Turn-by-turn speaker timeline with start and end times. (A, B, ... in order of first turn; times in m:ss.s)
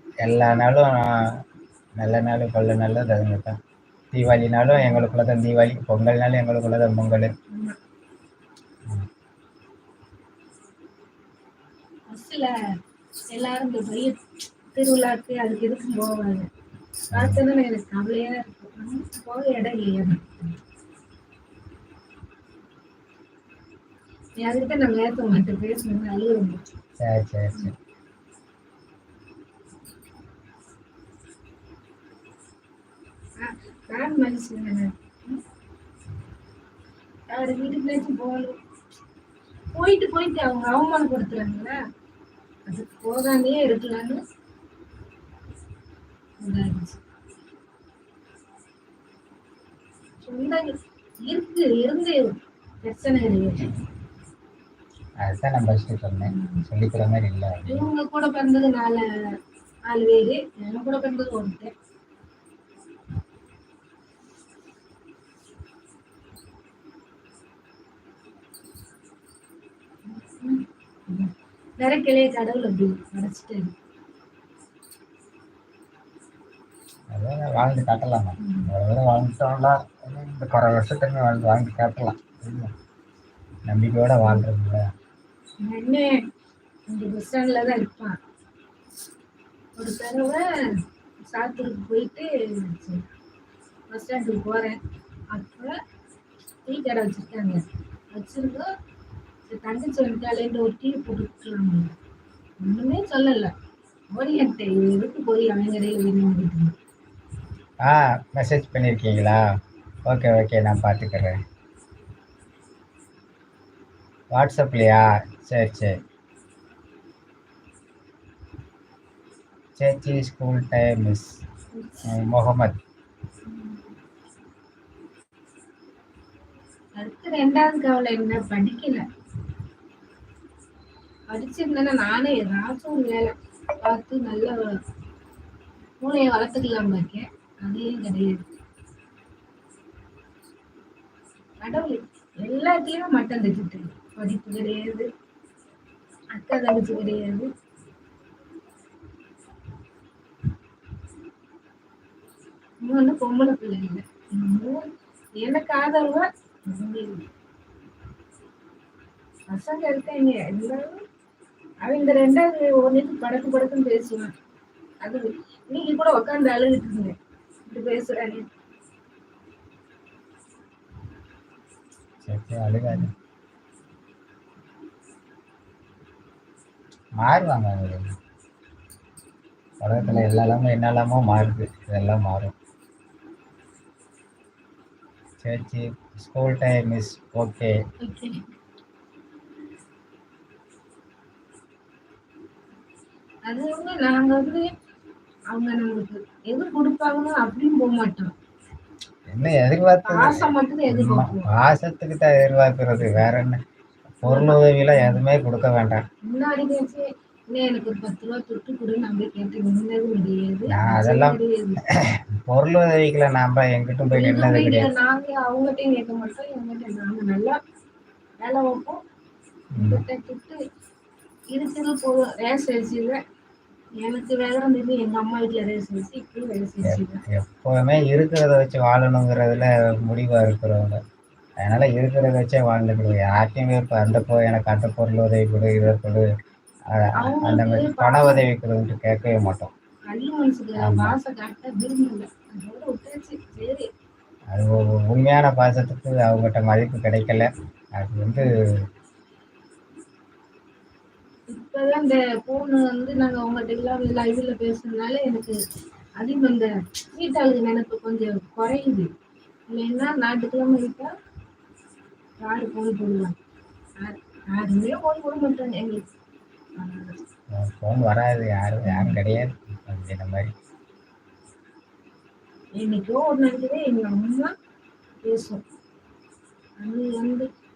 0:00.2-0:01.1 A
0:02.0-0:03.5 A
0:04.1-0:07.3 A
0:04.7-0:05.1 B
0:07.5-0:07.8 B
0:12.1-0:12.5 B
0:13.3-0:14.2 B
0:14.7-0:16.5 B
0:17.1-0:17.4 A
0:17.1-0:20.6 B
0:24.4-0:26.6 B
0:27.0-0:27.7 A
0:33.4-0:35.4 B
0:37.3-0:38.6 B
0:39.7-0:41.8 B
0:42.7-0:44.2 B
0:46.4-0:47.0 B
0:50.2-0:50.7 B
0:51.3-0:52.3 B
0:52.8-0:53.7 B
0:55.2-0:57.9 A
0:56.2-0:56.6 B
0:57.7-0:59.0 B
0:59.9-1:01.7 B
1:10.1-1:13.7 B
1:17.1-1:22.7 A
1:18.4-1:18.7 B
1:23.7-1:24.8 A
1:25.6-1:26.2 B
1:26.9-1:28.2 B
1:29.8-1:30.4 B
1:31.3-1:33.0 B
1:33.9-1:34.8 B
1:35.3-1:35.7 B
1:36.7-1:38.7 B
1:39.5-1:41.9 B
1:42.6-1:43.5 B
1:44.1-1:46.7 B
1:47.8-1:49.4 A
1:50.0-1:51.4 A
1:54.3-1:55.9 A
1:59.8-2:01.3 A
2:01.8-2:02.0 B
2:02.1-2:02.8 A
2:03.5-2:03.8 B
2:07.0-2:09.0 B
2:11.3-2:14.6 B
2:16.0-2:18.4 B
2:21.6-2:25.1 B
2:26.3-2:27.5 B
2:32.8-2:34.8 B
2:35.4-2:37.2 B
2:39.5-2:41.0 B
2:41.8-2:44.3 B
2:45.0-2:47.1 B
2:47.7-2:48.4 B
2:52.2-2:53.1 A
2:57.2-2:58.1 A
2:59.8-3:02.5 A
2:59.9-3:00.3 B
3:05.4-3:07.7 A
3:08.0-3:08.4 B
3:13.5-3:14.7 B
3:15.5-3:18.3 B
3:19.3-3:23.6 A
3:20.1-3:21.5 B
3:24.1-3:26.0 A
3:24.2-3:25.2 B
3:26.2-3:31.8 B
3:30.7-3:31.4 A
3:31.9-3:34.9 A
3:34.1-3:37.6 B
3:38.4-3:39.0 B
3:39.7-3:40.0 A
3:39.8-3:40.6 B
3:41.5-3:43.2 B
3:44.0-3:47.2 B
3:46.8-3:51.0 A
3:51.6-3:56.2 A
3:56.9-3:59.7 A
3:57.2-3:58.4 B
4:00.1-4:03.9 B
4:00.8-4:01.2 A
4:04.5-4:08.5 A
4:11.5-4:15.5 B
4:16.2-4:19.1 B
4:19.7-4:21.1 B
4:22.4-4:23.4 B
4:24.0-4:26.0 B
4:26.8-4:27.2 B
4:27.6-4:30.5 A
4:28.9-4:29.2 B
4:32.8-4:34.5 B
4:35.2-4:35.6 B
4:36.8-4:37.5 B